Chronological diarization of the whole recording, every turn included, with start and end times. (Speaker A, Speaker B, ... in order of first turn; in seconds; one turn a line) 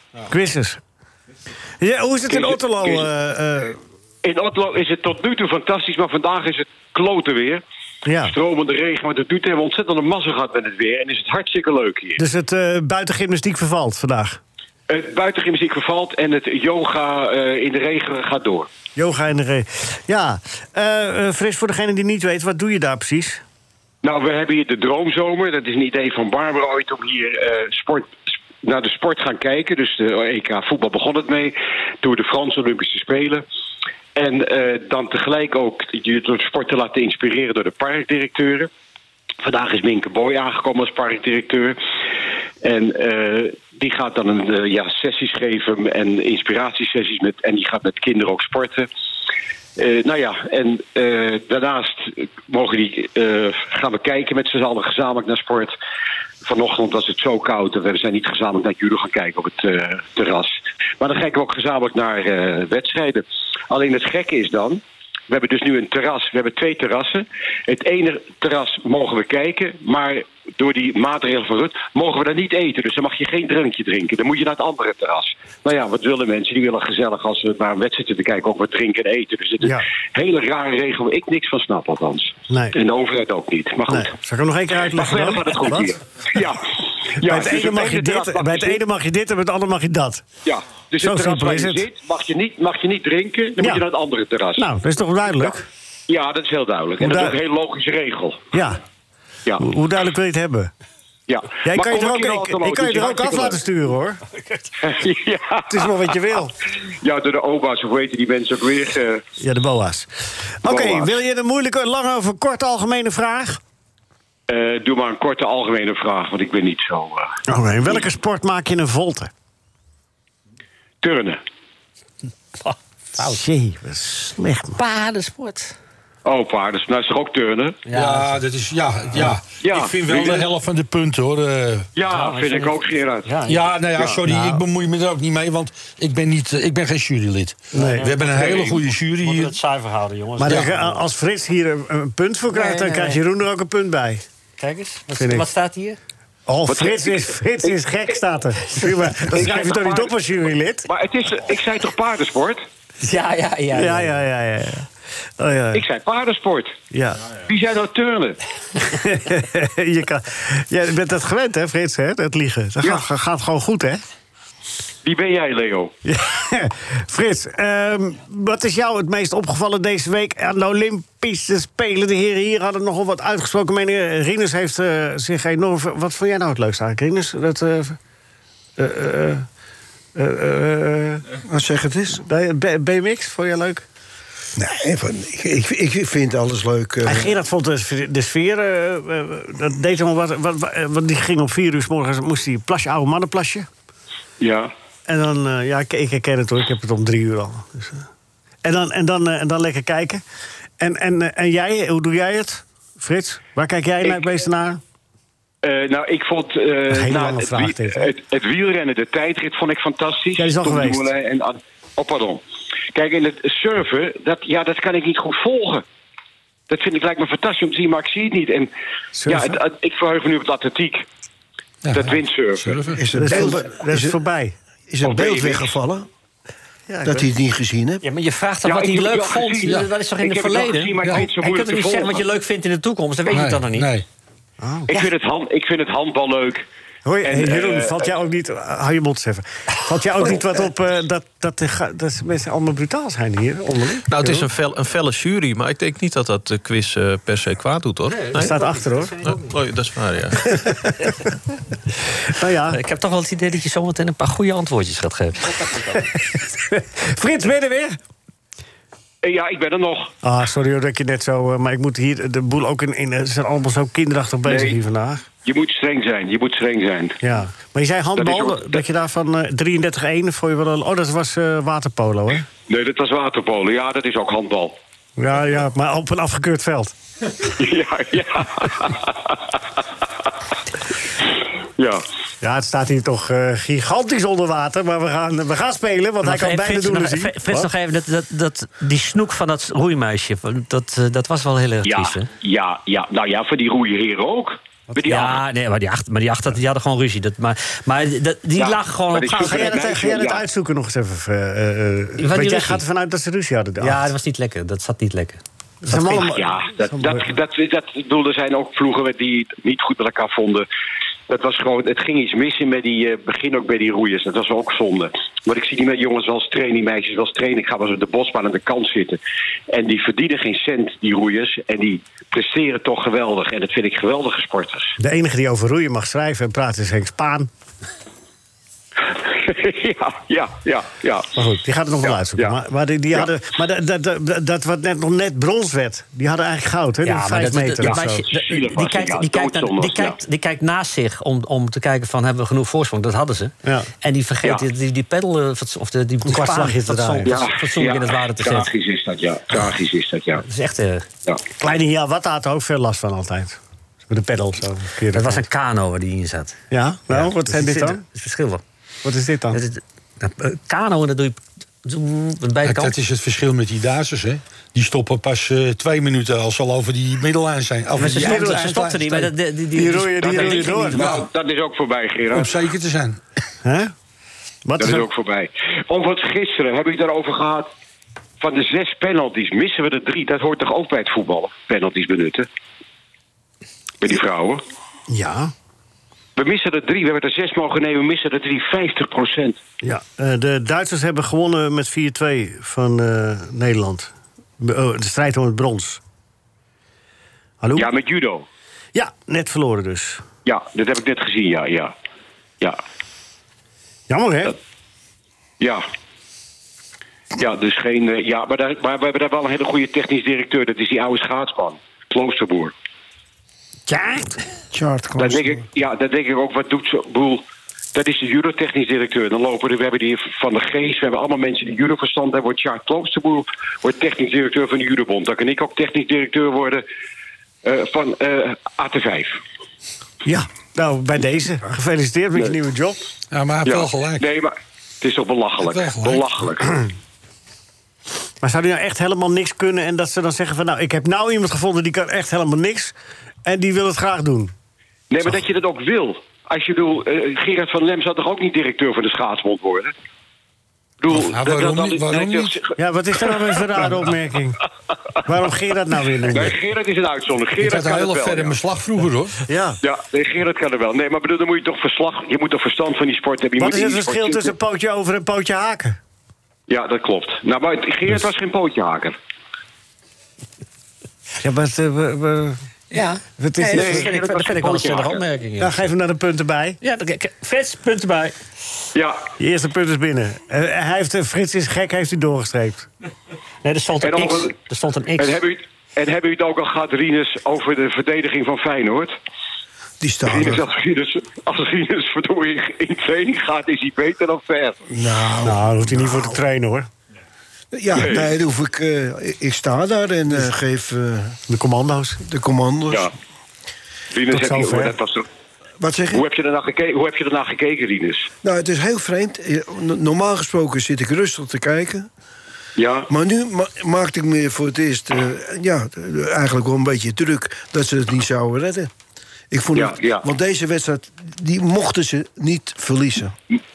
Speaker A: 0.3-0.8
Speaker A: 1.8-3.8
Speaker B: 2.3-3.1
Speaker B: 4.2-7.6
Speaker A: 8.1-8.3
Speaker B: 8.2-12.2
Speaker A: 12.2-14.4
Speaker B: 14.9-18.7
Speaker A: 19.0-23.4
Speaker B: 24.0-33.4
Speaker B: 34.2-38.7
Speaker B: 39.4-41.8
Speaker B: 42.6-48.9
Speaker B: 49.8-55.7
Speaker B: 56.4-84.1
Speaker A: 79.6-79.9
Speaker A: 82.5-82.8
Speaker A: 83.9-85.9
Speaker B: 84.9-88.8
Speaker A: 87.2-90.2
Speaker B: 90.5-94.7
Speaker A: 91.0-91.8
Speaker A: 94.6-95.7
Speaker B: 96.1-98.5
Speaker A: 97.0-97.4
Speaker A: 98.5-98.8
Speaker A: 99.6-100.7
Speaker B: 101.3-103.6
Speaker A: 101.6-104.4
Speaker B: 104.8-105.9
Speaker A: 105.7-106.5
Speaker B: 107.0-109.2
Speaker A: 109.4-110.1
Speaker A: 110.6-113.6
Speaker B: 110.7-111.2
Speaker B: 114.5-117.3
Speaker A: 117.5-119.3
Speaker B: 121.0-121.4
Speaker C: 122.6-123.4
Speaker A: 123.2-124.8
Speaker C: 124.8-125.7
Speaker B: 126.2-127.8
Speaker C: 127.9-128.4
Speaker D: 127.9-131.9
Speaker B: 129.6-130.5
Speaker B: 131.9-133.4
Speaker C: 132.1-134.1
Speaker D: 133.5-139.6
Speaker A: 134.3-134.6
Speaker C: 137.7-141.0
Speaker A: 137.7-138.1
Speaker B: 138.4-138.8
Speaker A: 140.4-144.2
Speaker D: 140.5-140.7
Speaker C: 142.5-143.2
Speaker C: 144.6-146.0
Speaker A: 145.2-145.5
Speaker A: 146.5-150.9
Speaker B: 146.7-147.7
Speaker B: 149.2-150.1
Speaker B: 150.9-152.6
Speaker C: 153.0-154.2
Speaker A: 153.7-154.9
Speaker A: 155.4-155.8
Speaker B: 155.7-156.8
Speaker A: 156.9-157.3
Speaker B: 157.4-158.4
Speaker A: 158.9-164.0
Speaker B: 165.0-165.9
Speaker A: 166.1-178.0
Speaker A: 178.8-179.5
Speaker A: 180.2-181.2
Speaker E: 181.4-182.2
Speaker A: 182.2-183.8
Speaker E: 184.6-187.3
Speaker A: 187.1-193.7
Speaker B: 194.4-194.7
Speaker A: 195.1-198.0
Speaker A: 198.6-200.2
Speaker A: 200.8-204.8
Speaker B: 205.6-212.4
Speaker A: 206.9-208.1
Speaker A: 210.4-211.1
Speaker B: 212.9-215.8
Speaker B: 216.7-218.7
Speaker A: 219.2-219.6
Speaker B: 219.3-221.0
Speaker D: 221.8-223.1
Speaker B: 221.9-222.8
Speaker E: 222.9-224.2
Speaker A: 223.1-224.6
Speaker E: 224.9-226.1
Speaker B: 225.0-225.7
Speaker A: 226.9-227.3
Speaker E: 227.1-228.0
Speaker C: 228.0-233.9
Speaker B: 228.6-232.2
Speaker D: 233.3-234.1
Speaker A: 234.6-235.1
Speaker B: 234.9-236.6
Speaker A: 237.1-244.5
Speaker B: 237.2-238.1
Speaker F: 244.1-248.6
Speaker C: 248.1-249.5
Speaker A: 248.4-249.2
Speaker F: 249.2-250.9
Speaker A: 252.3-252.8
Speaker C: 252.7-256.0
Speaker A: 256.7-258.0
Speaker B: 259.2-260.1
Speaker A: 260.2-265.2
Speaker B: 264.4-264.8
Speaker B: 265.4-267.2
Speaker A: 267.2-272.5
Speaker B: 268.2-268.8
Speaker B: 272.7-274.8
Speaker A: 275.2-276.9
Speaker B: 277.6-279.6
Speaker B: 281.8-282.1
Speaker A: 282.4-287.7
Speaker C: 286.2-292.3
Speaker B: 291.8-295.4
Speaker C: 295.0-299.9
Speaker B: 298.6-300.4
Speaker A: 299.4-304.1
Speaker C: 302.2-302.8
Speaker C: 303.8-306.3
Speaker A: 305.8-307.3
Speaker B: 306.1-310.7
Speaker B: 311.3-319.2
Speaker B: 319.7-324.9
Speaker A: 325.0-327.5
Speaker B: 329.1-331.3
Speaker A: 331.4-338.3
Speaker B: 332.0-332.6
Speaker C: 337.0-348.7
Speaker B: 337.8-340.2
Speaker A: 343.6-343.9
Speaker A: 346.2-347.4
Speaker B: 347.3-350.4
Speaker C: 350.4-351.1
Speaker A: 351.6-355.4
Speaker C: 355.1-356.6
Speaker A: 356.7-358.0
Speaker C: 357.1-358.6
Speaker A: 359.0-359.6
Speaker C: 359.5-362.9
Speaker D: 362.6-369.3
Speaker C: 368.0-371.2
Speaker A: 368.1-368.8
Speaker A: 369.7-371.1
Speaker D: 370.9-371.2
Speaker B: 370.9-372.6
Speaker D: 372.3-373.2
Speaker A: 373.6-373.9
Speaker A: 374.6-375.1
Speaker B: 374.8-377.7
Speaker B: 378.4-382.5
Speaker B: 384.0-384.6
Speaker A: 385.1-385.5
Speaker B: 386.4-389.6
Speaker A: 389.8-396.0
Speaker A: 397.6-397.9
Speaker B: 397.8-398.5
Speaker A: 398.9-400.2
Speaker B: 400.4-401.9
Speaker A: 404.1-404.6
Speaker B: 407.4-412.7
Speaker A: 413.9-414.4
Speaker E: 414.7-415.6
Speaker B: 415.2-426.9
Speaker B: 427.6-429.4
Speaker A: 430.2-433.0
Speaker D: 433.3-434.2
Speaker B: 433.7-436.8
Speaker D: 435.6-436.3
Speaker A: 438.4-444.5
Speaker B: 445.1-449.9
Speaker B: 451.0-452.7
Speaker D: 451.1-452.6
Speaker A: 452.8-454.6
Speaker B: 453.3-453.9
Speaker A: 455.2-456.6
Speaker B: 456.3-458.6
Speaker D: 457.6-459.4
Speaker A: 459.5-459.8
Speaker B: 459.8-464.5
Speaker A: 463.6-466.0
Speaker B: 466.7-469.2
Speaker A: 471.4-472.6
Speaker C: 472.9-475.9
Speaker A: 473.4-474.1
Speaker B: 473.8-475.2
Speaker A: 475.6-476.8
Speaker C: 476.8-478.4
Speaker B: 478.9-479.2
Speaker A: 479.4-482.9
Speaker C: 483.6-485.4
Speaker B: 484.0-484.5
Speaker B: 485.2-489.1
Speaker E: 490.0-490.6
Speaker B: 490.3-494.8
Speaker E: 494.9-496.4
Speaker A: 495.4-496.9
Speaker E: 497.7-501.4
Speaker B: 497.9-498.3
Speaker A: 501.5-502.2
Speaker E: 502.2-503.1
Speaker B: 504.1-505.3
Speaker A: 504.3-504.9
Speaker E: 505.8-506.2
Speaker B: 506.1-508.3
Speaker E: 508.4-512.1
Speaker B: 512.8-513.1
Speaker E: 513.1-518.9
Speaker E: 519.5-523.4
Speaker B: 519.8-520.2